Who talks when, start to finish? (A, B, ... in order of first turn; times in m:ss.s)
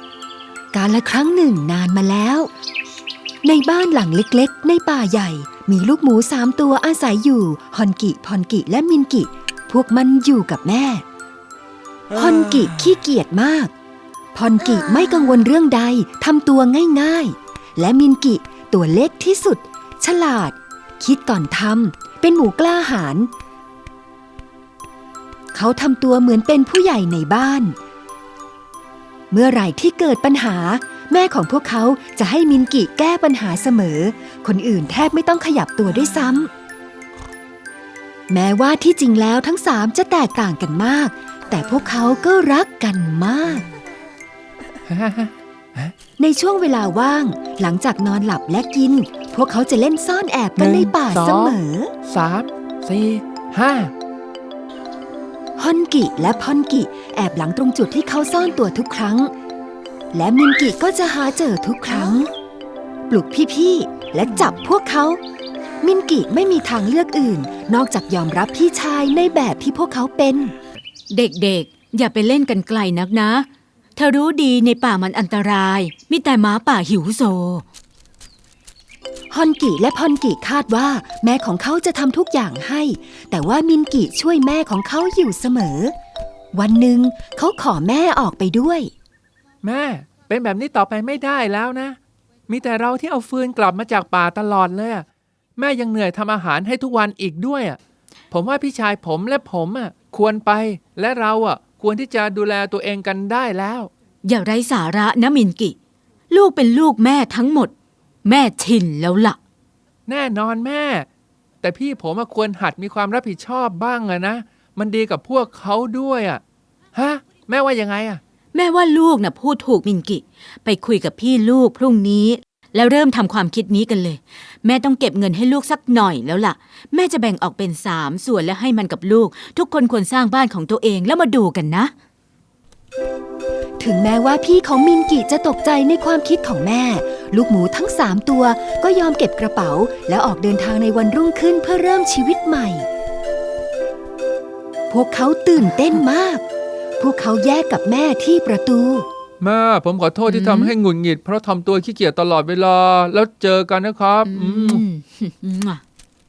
0:00.7-0:02.5 A
0:03.4-0:11.0 A
0:12.1-0:13.7 A
0:14.4-0:23.3 A
0:25.5-0:27.8 A
0:29.3-0:36.5 A
0:38.3-0:43.7 A
0:44.9-0:45.9 B
0:46.2-0:51.9 A
0:50.6-0:53.9 B
0:55.6-0:59.3 A
1:00.1-1:02.2 A
1:01.9-1:02.3 C
1:03.1-1:05.2 A
1:05.8-1:10.5 A
1:11.1-1:17.6 C
1:19.3-1:25.9 A
1:26.5-1:28.9 A
1:29.6-1:35.1 B
1:35.6-1:37.8 B
1:38.3-1:43.9 B
1:44.2-1:45.8 C
1:46.3-1:47.7 C
1:48.2-1:49.4 C
1:50.1-1:51.1 B
1:51.6-1:56.4 B
1:56.9-1:58.2 B
1:58.5-2:11.9 C
2:13.8-2:22.9 A
2:24.9-2:26.4 A
2:27.0-2:29.1 A
2:29.4-2:34.8 B
2:30.3-2:30.7 C
2:34.3-2:35.8 C